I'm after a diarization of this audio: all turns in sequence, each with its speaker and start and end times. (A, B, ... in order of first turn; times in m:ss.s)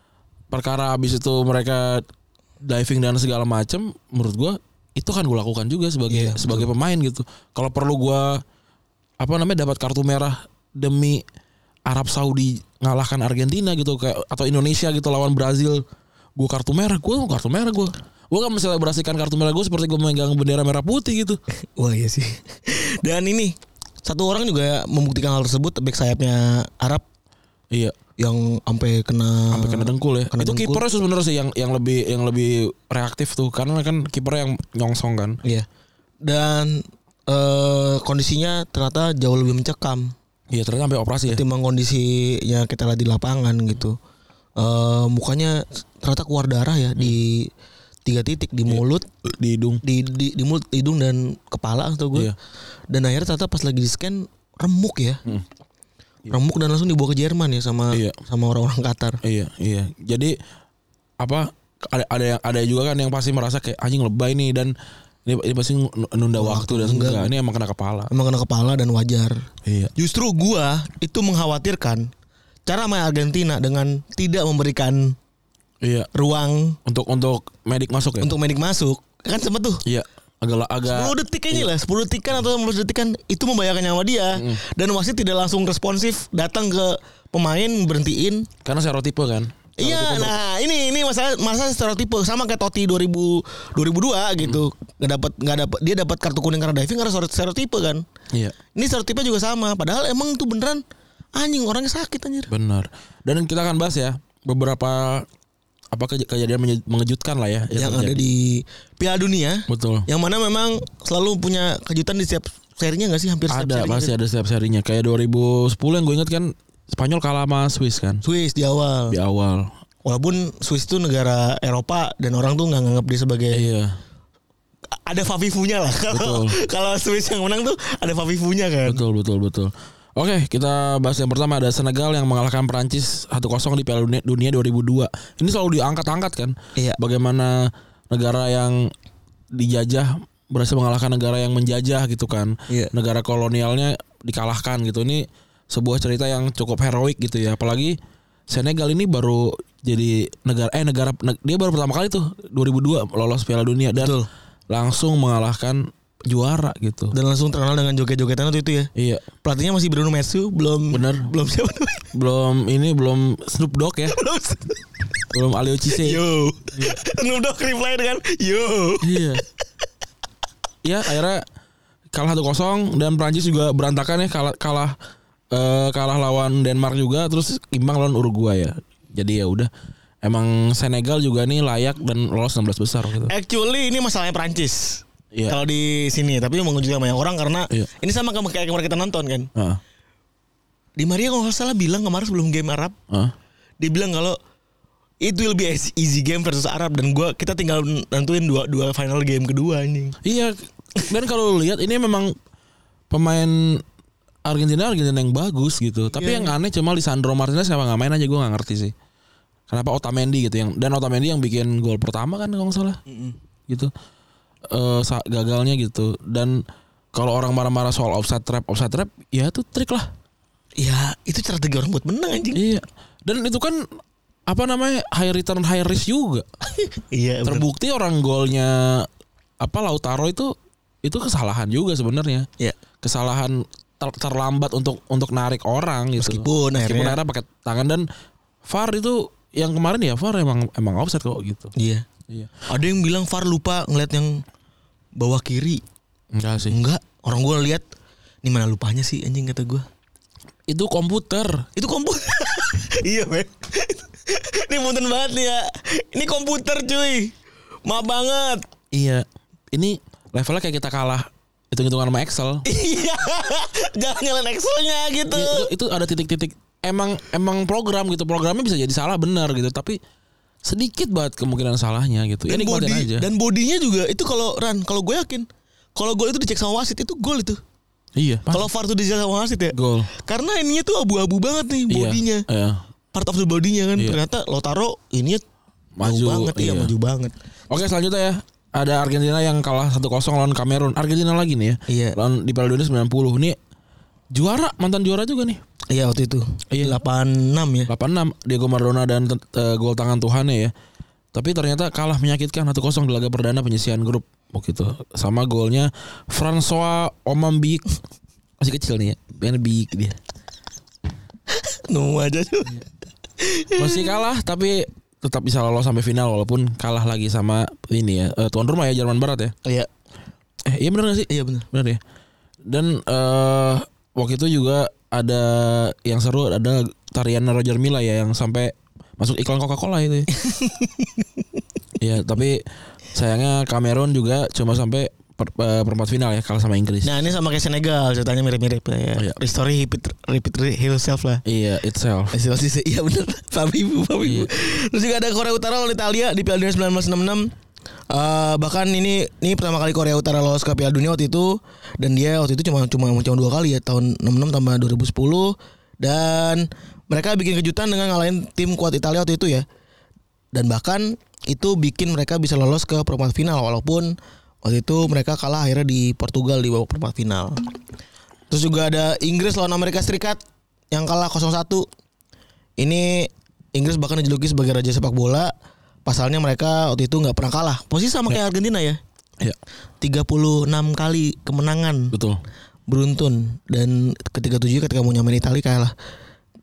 0:00.5-0:02.0 A
0:02.6-0:08.4 A
0:06.1-0:06.7 B
0:09.2-0:11.2 A
0:11.9-0:15.8 A
0:16.4-0:21.4 A
0:21.8-0:27.0 B
0:27.7-0:28.0 A
0:28.2-0:30.8 B
0:29.5-0:35.4 A
0:36.2-0:40.1 B
0:40.5-0:41.4 A
0:41.3-0:44.0 B
0:44.6-0:47.5 B
0:48.0-0:49.1 B
0:48.7-0:49.8 A
0:49.8-0:52.3 B
0:52.9-0:55.2 B
0:56.3-0:59.2 B
0:57.9-0:58.2 A
0:59.2-1:00.3 A
1:01.2-1:04.7 A
1:05.2-1:08.1 A
1:06.4-1:07.3 B
1:08.1-1:12.1 B
1:09.6-1:09.9 A
1:12.6-1:15.2 B
1:15.8-1:16.1 A
1:16.1-1:16.8 B
1:16.8-1:18.3 A
1:18.2-1:19.8 B
1:19.8-1:21.7 A
1:20.9-1:28.5 B
1:24.3-1:24.6 A
1:28.6-1:30.3 A
1:29.8-1:38.0 B
1:38.7-1:40.8 B
1:41.4-1:42.5 B
1:42.5-1:45.3 A
1:45.9-1:48.2 A
1:47.8-1:54.1 B
1:49.7-1:50.1 A
1:53.5-1:58.2 A
1:58.2-1:59.2 B
1:59.1-1:59.7 A
2:00.0-2:03.6 B
2:03.5-2:04.0 A
2:05.0-2:09.0 B
2:06.1-2:06.6 A
2:08.9-2:18.9 A
2:19.5-2:28.0 A
2:28.5-2:34.2 A
2:33.9-2:34.3 B
2:34.7-2:37.1 A
2:37.1-2:38.9 B
2:39.0-2:39.3 A
2:39.4-2:42.1 B
2:40.9-2:41.3 A
2:42.1-2:44.2 A
2:44.1-2:44.8 B
2:45.3-2:46.2 A
2:45.9-2:49.3 B
2:49.0-2:49.4 A
2:50.8-2:51.4 A
2:52.1-2:54.9 A
2:55.5-2:59.7 A
3:00.2-3:03.3 A
3:03.3-3:09.5 B
3:11.0-3:13.0 B
3:13.8-3:14.4 B
3:15.2-3:20.2 B
3:20.2-3:22.3 A
3:23.1-3:23.8 A
3:24.4-3:28.9 A
3:26.1-3:26.5 B
3:29.7-3:33.0 A
3:33.1-3:33.4 B
3:34.7-3:40.1 A
3:40.8-3:42.6 B
3:42.5-3:43.8 A
3:44.5-3:46.4 A
3:46.7-3:47.7 B
3:47.4-3:49.1 A
3:49.6-3:52.5 A
3:53.0-3:58.0 A
3:56.2-3:57.2 B
3:58.6-4:01.7 A
4:01.8-4:02.0 B
4:02.7-4:04.4 B
4:05.2-4:05.8 B
4:06.3-4:06.8 A
4:06.7-4:07.8 B
4:08.4-4:09.8 B
4:10.7-4:11.7 A
4:11.8-4:17.3 B
4:17.8-4:18.6 B
4:18.9-4:22.6 A
4:22.6-4:25.7 B
4:25.3-4:30.0 A
4:30.6-4:33.3 A
4:32.5-4:37.6 B
4:38.2-4:38.6 A
4:38.5-4:42.4 B
4:39.7-4:40.1 A
4:41.9-4:42.8 A
4:43.1-4:45.4 B
4:46.0-4:46.9 A
4:46.0-4:47.3 B
4:47.7-4:53.6 A
4:51.9-4:52.2 B
4:54.3-4:55.6 A
4:55.9-4:57.9 B
4:56.7-4:57.0 A
4:57.9-5:00.7 A
5:01.3-5:07.8 A
5:08.6-5:10.2 A
5:11.5-5:12.9 B
5:13.4-5:14.2 B
5:13.8-5:19.5 A
5:20.7-5:22.0 A
5:21.3-5:21.6 B
5:22.6-5:30.3 A
5:30.3-5:31.2 B
5:32.0-5:32.6 A
5:33.1-5:37.1 A
5:37.0-5:41.4 B
5:41.4-5:42.4 A
5:42.3-5:47.5 B
5:44.2-5:44.5 A
5:48.1-5:59.6 B
6:00.5-6:07.6 B
6:08.5-6:10.4 B
6:10.9-6:11.9 B
6:12.8-6:15.5 B
6:16.0-6:19.0 B
6:20.0-6:22.1 B
6:22.1-6:22.4 A
6:22.9-6:25.9 B